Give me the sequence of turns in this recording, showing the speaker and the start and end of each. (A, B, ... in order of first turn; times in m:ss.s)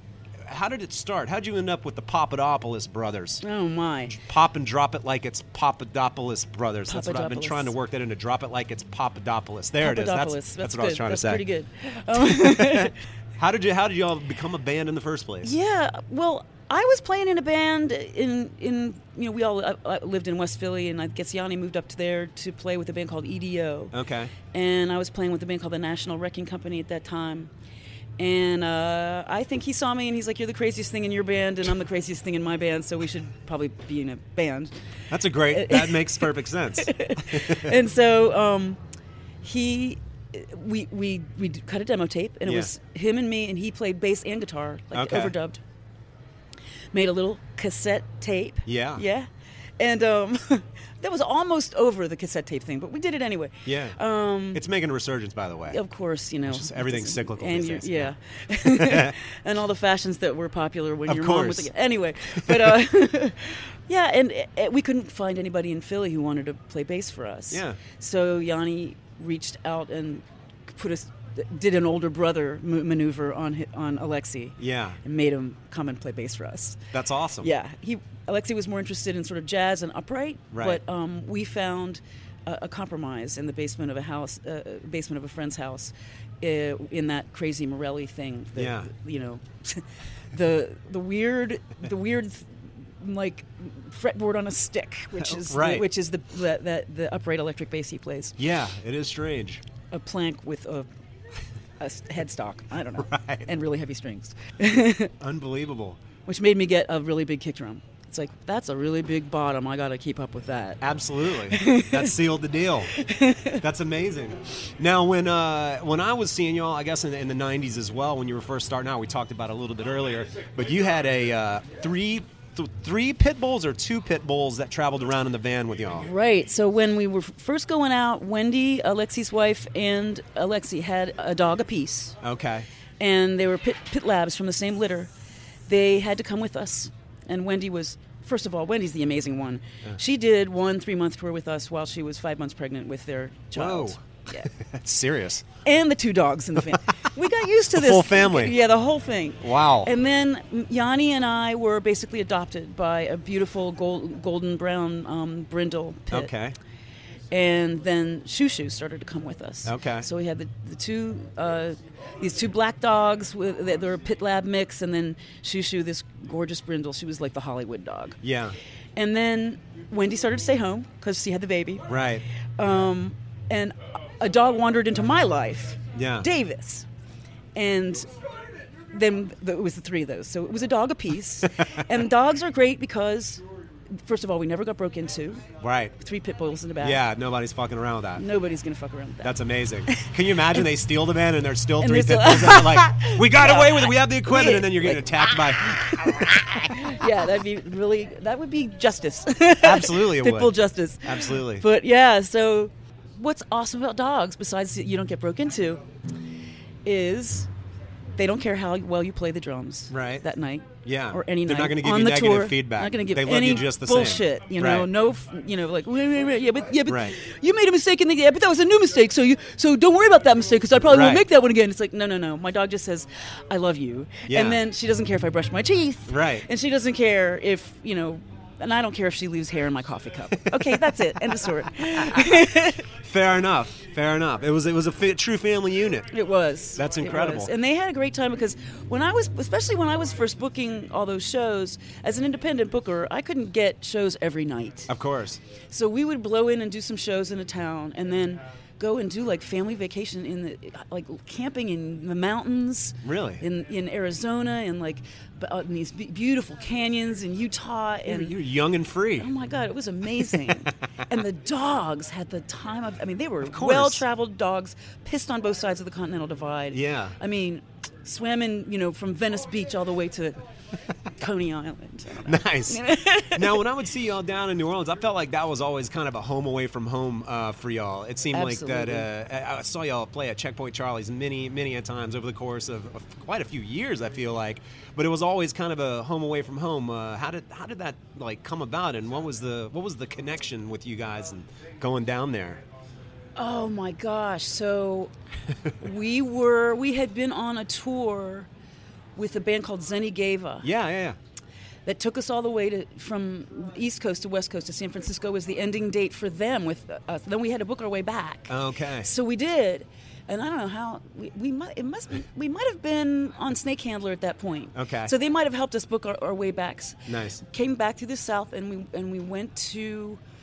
0:00.4-0:03.4 A
0:03.4-0:04.2 B
0:04.1-0:11.4 A
0:06.9-0:07.7 B
0:09.8-0:13.0 B
0:12.1-0:15.5 A
0:15.4-0:23.9 B
0:23.9-0:24.3 A
0:24.5-0:27.5 B
0:28.2-0:34.7 B
0:35.1-0:37.8 A
0:35.5-0:38.8 B
0:39.4-0:45.6 B
0:42.4-0:42.7 A
0:44.9-0:45.3 A
0:46.9-0:49.3 B
0:48.7-0:49.0 A
0:49.8-0:54.6 B
0:53.7-0:54.0 A
0:54.5-0:55.8 A
0:55.7-1:16.8 B
0:56.5-0:59.2 A
1:01.1-1:01.7 A
1:02.3-1:02.8 A
1:07.5-1:07.8 A
1:14.6-1:15.0 A
1:16.9-1:17.5 A
1:17.4-1:38.4 B
1:20.5-1:20.8 A
1:28.6-1:28.9 A
1:35.2-1:35.9 A
1:38.4-1:39.6 A
1:39.9-1:40.9 B
1:41.8-1:45.1 B
1:43.0-1:43.5 A
1:45.2-1:46.0 A
1:46.2-1:50.8 B
1:50.8-1:52.9 A
1:51.4-1:52.2 B
1:52.9-1:53.6 B
1:53.5-2:06.1 A
2:06.0-2:12.2 B
2:12.2-2:12.7 A
2:13.0-2:15.1 B
2:15.7-2:24.5 B
2:23.5-2:25.4 A
2:25.6-2:36.3 B
2:27.7-2:28.6 A
2:29.4-2:29.9 A
2:36.1-2:36.6 A
2:37.3-2:48.2 B
2:39.6-2:40.1 A
2:48.2-2:48.6 A
2:49.0-2:51.9 B
2:51.9-2:52.2 A
2:52.6-2:56.9 B
2:55.9-2:56.3 A
2:57.6-2:58.1 B
2:58.9-3:03.4 B
3:04.0-3:05.5 B
3:05.6-3:05.9 A
3:06.0-3:07.0 B
3:06.8-3:08.2 A
3:08.2-3:09.4 B
3:09.2-3:16.9 A
3:11.8-3:25.8 B
3:19.6-3:21.7 A
3:26.8-3:27.5 B
3:28.2-3:52.9 B
3:29.9-3:30.2 A
3:30.8-3:34.9 A
3:36.9-3:37.2 A
3:40.8-3:41.2 A
3:44.3-3:44.6 A
3:46.1-3:46.5 A
3:53.0-3:56.1 A
3:56.1-4:04.9 B
3:56.8-3:57.5 A
4:04.9-4:05.4 A
4:05.7-4:18.4 B
4:13.0-4:13.4 A
4:18.0-4:19.3 A
4:19.2-4:30.4 B
4:20.2-4:20.7 A
4:23.4-4:24.0 A
4:26.7-4:27.2 A
4:31.2-4:33.7 B
4:32.2-4:52.6 A
4:38.3-4:39.1 B
4:53.4-4:55.1 B
4:55.7-4:58.5 B
4:59.2-5:00.7 B
5:00.6-5:01.2 A
5:01.9-5:20.2 B
5:08.5-5:09.1 A
5:14.8-5:15.1 A
5:17.1-5:17.4 A